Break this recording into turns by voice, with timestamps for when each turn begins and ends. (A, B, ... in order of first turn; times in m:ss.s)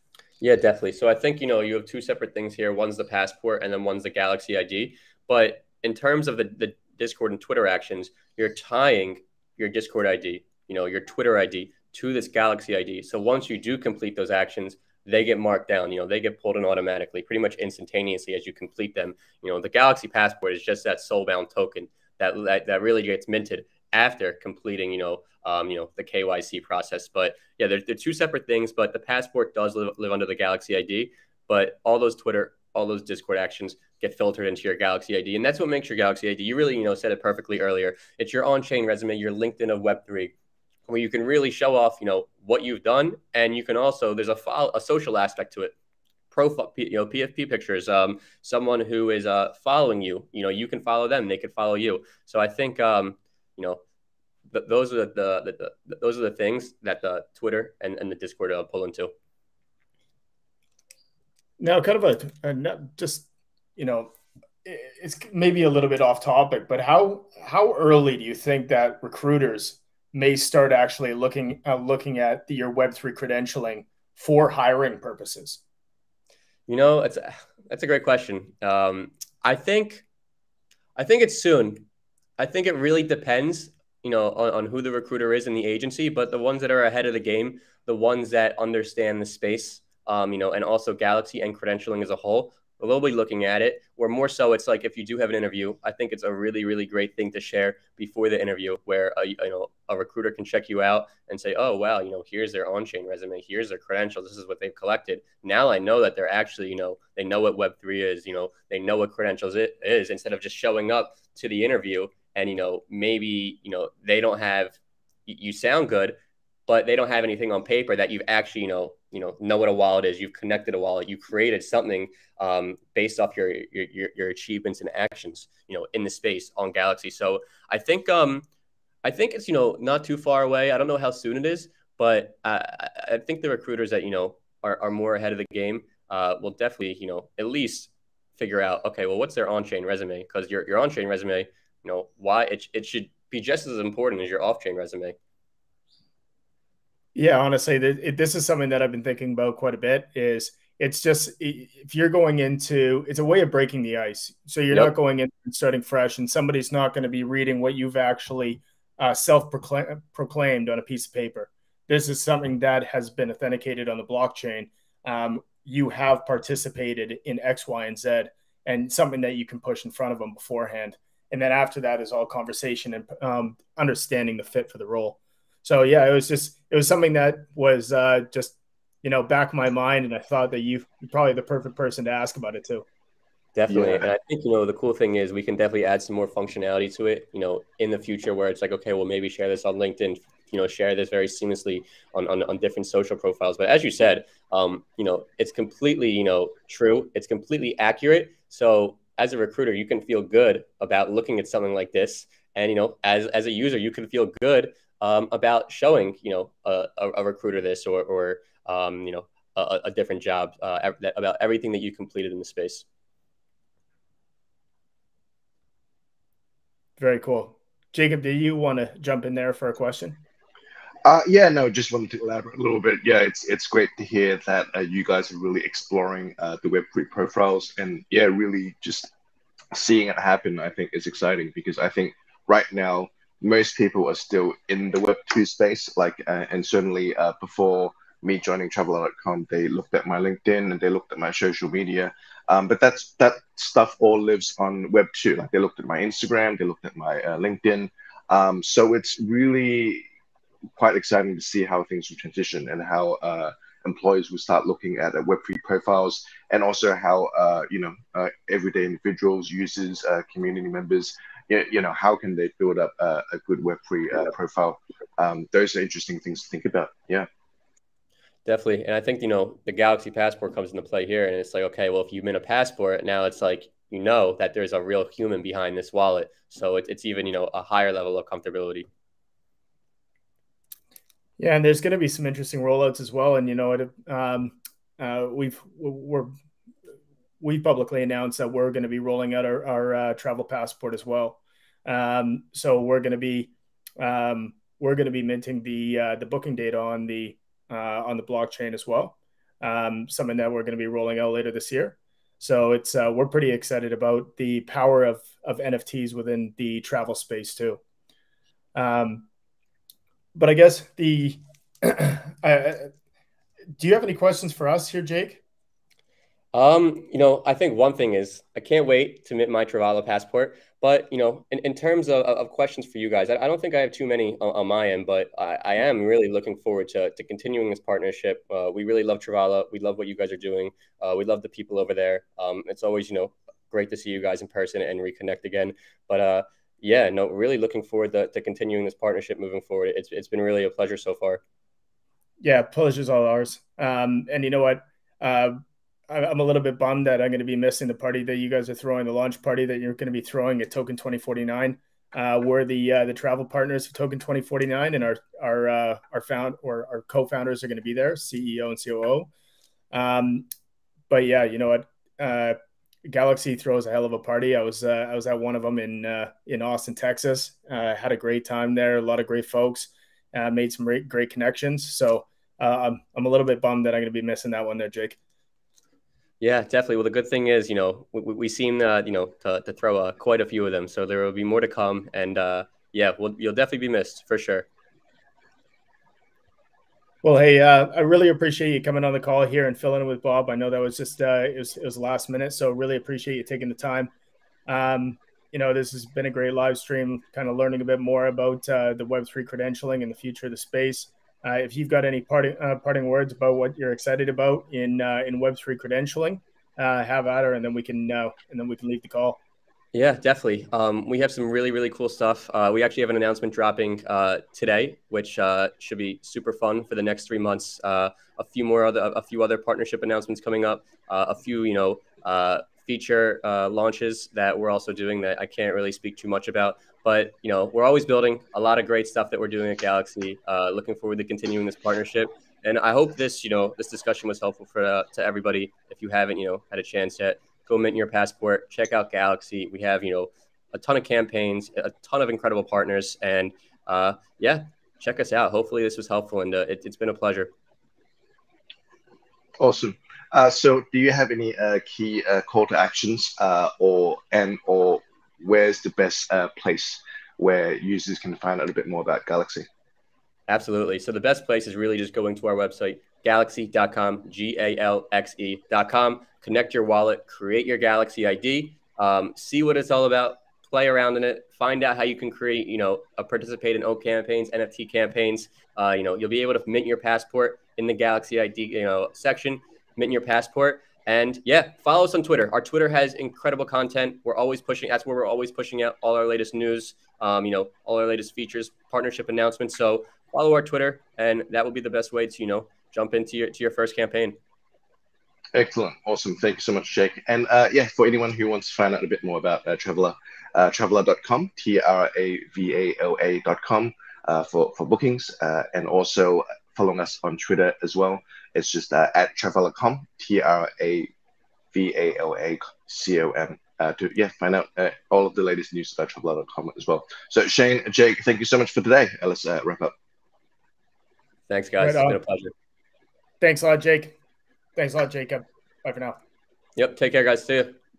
0:00.4-0:40.3 A
0:40.9-0:45.7 A
0:46.3-0:53.8 A
0:54.5-0:59.1 A
1:01.6-1:04.1 B
1:04.6-1:15.6 B
1:16.7-1:20.0 A
1:21.0-1:21.8 A
1:22.4-1:56.2 A
1:56.7-2:08.4 A
2:09.0-2:25.2 A
2:27.1-3:02.8 B
3:03.5-3:32.8 A
3:03.7-3:04.1 C
3:37.0-3:40.2 B
3:41.0-3:49.1 C
3:49.7-4:10.0 C
4:10.8-4:27.3 C
4:28.4-4:38.9 A
4:41.4-4:46.3 B
4:47.4-5:07.8 B
5:08.7-5:09.2 B
5:10.3-5:12.9 B
5:13.8-5:15.4 B
5:16.5-5:41.4 A
5:42.4-5:45.6 B
5:46.1-5:59.3 B
5:59.9-6:00.5 B
6:01.1-6:15.2 B
6:16.4-6:24.6 A
6:27.2-6:34.1 B
6:34.7-6:49.4 B
6:49.9-7:27.5 A
7:29.6-7:39.7 C
7:40.5-8:14.4 A
8:15.5-8:31.1 C
8:31.7-8:39.9 C
8:41.5-8:42.5 A
8:41.8-8:42.2 B
8:43.4-8:44.2 B
8:44.8-8:46.2 B
8:46.8-8:47.8 A